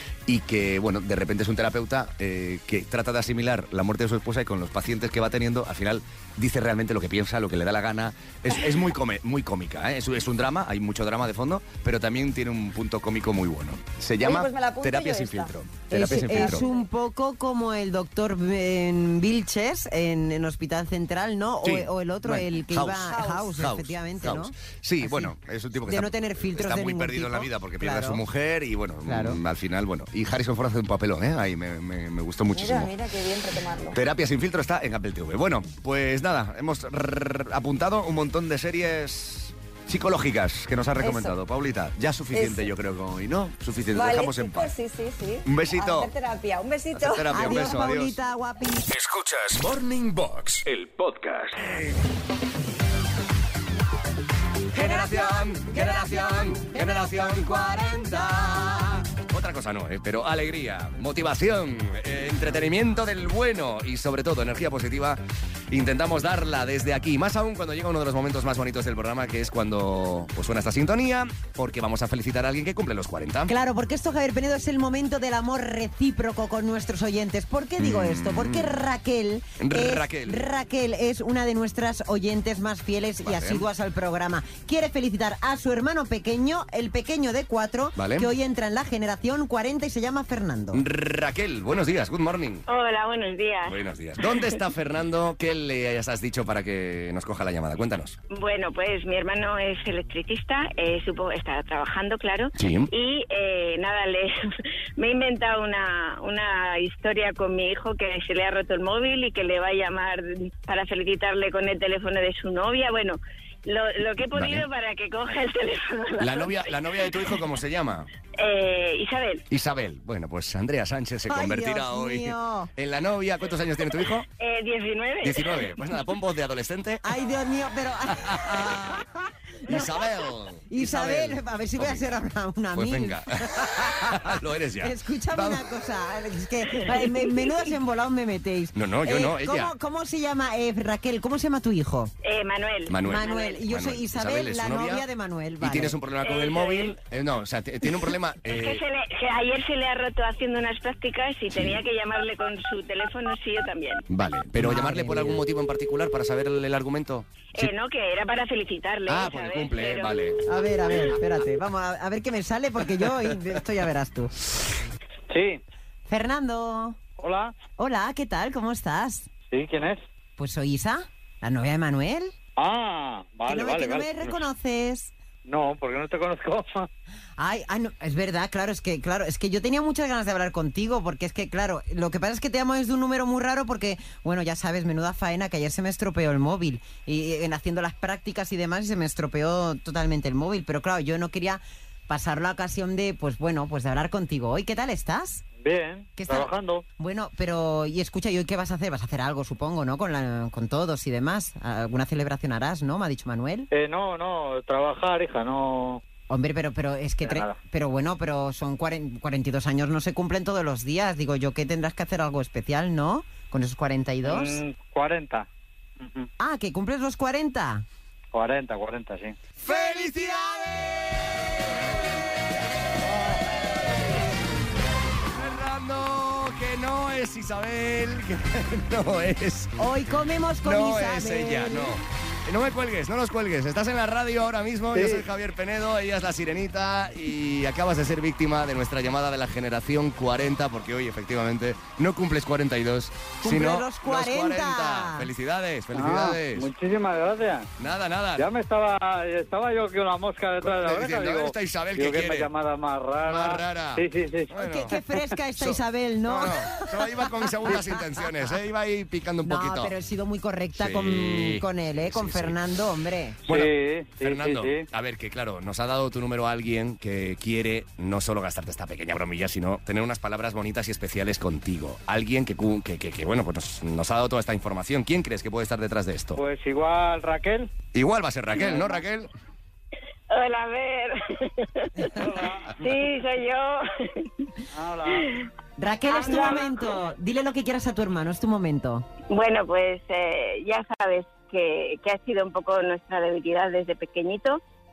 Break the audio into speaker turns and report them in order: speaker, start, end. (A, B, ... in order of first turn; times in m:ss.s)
0:00.3-0:16.6 A
0:14.2-0:15.5 B
0:15.9-0:25.3 C
0:16.1-0:16.9 B
0:21.6-0:32.9 A
0:23.1-0:23.5 B
0:25.8-0:28.2 C
0:29.0-0:29.4 C
0:32.5-0:34.0 B
0:33.9-0:44.7 A
0:41.0-0:41.4 B
0:42.3-0:42.7 B
0:43.9-0:47.6 B
0:45.4-0:46.1 A
0:46.9-0:48.2 A
0:47.3-0:48.9 C
0:48.9-0:51.6 D
0:54.7-1:05.2 A
1:05.7-1:13.5 A
1:13.5-1:30.8 C
1:17.8-1:18.8 A
1:19.6-1:20.4 A
1:23.2-1:23.6 A
1:28.0-1:28.3 A
1:30.7-1:32.6 A
1:32.7-1:34.3 E
1:33.6-1:38.2 A
1:38.3-1:57.4 E
1:42.6-1:42.9 A
1:54.3-1:54.6 A
1:56.2-1:58.1 A
1:58.4-1:59.4 E
1:59.5-2:04.2 A
2:01.3-2:02.7 C
2:04.4-2:05.7 E
2:05.2-2:07.0 A
2:07.0-2:09.1 C
2:08.1-2:09.0 A
2:09.6-2:09.9 C
2:09.7-2:12.2 A
2:10.7-2:22.1 C
2:12.7-2:15.7 A
2:18.7-2:19.7 A
2:22.2-2:23.6 E
2:22.9-2:25.0 A
2:23.0-2:25.9 C
2:25.6-2:28.8 A
2:26.2-2:27.0 E
2:28.5-2:34.0 E
2:34.1-2:37.7 A
2:34.6-2:35.4 C
2:37.5-2:40.2 E
2:39.1-2:40.4 A
2:40.4-2:44.3 C
2:45.3-2:45.6 F
2:46.1-2:47.0 C
2:47.2-2:47.6 F
2:47.8-2:49.3 C
2:49.5-2:50.0 F
2:50.4-2:52.3 C
2:52.6-2:54.4 F
2:53.5-2:55.1 C
2:55.4-2:56.9 F
2:57.4-3:15.4 C
3:15.6-3:16.8 F
3:16.2-3:23.7 C
3:23.7-3:26.0 F
3:26.3-3:34.6 C
3:27.2-3:27.6 F
3:34.2-3:35.5 F
3:36.0-3:36.3 F
3:36.4-3:37.8 C
3:38.3-3:39.4 F
3:39.6-3:41.3 A
3:39.6-3:40.7 C
3:45.3-3:49.7 A
3:49.8-3:52.0 C
3:50.6-4:06.7 A
3:54.9-3:55.2 F
4:03.4-4:05.3 C
4:05.9-4:07.7 F
4:07.8-4:08.5 A
4:08.4-4:15.1 F
4:10.6-4:12.5 A
4:13.2-4:14.9 A
4:14.6-4:18.3 C
4:15.5-4:19.9 A
4:19.4-4:23.4 C
4:20.7-4:22.6 A
4:23.4-4:36.4 A
4:23.5-4:24.9 F
4:36.4-4:37.7 F
4:37.9-4:39.3 A
4:38.7-4:39.0 F
4:40.3-4:42.1 E
4:42.2-4:42.7 F
4:42.7-4:44.5 E
4:44.7-4:45.3 F
4:45.8-4:49.0 C
4:46.1-4:46.9 E
4:49.3-4:54.6 E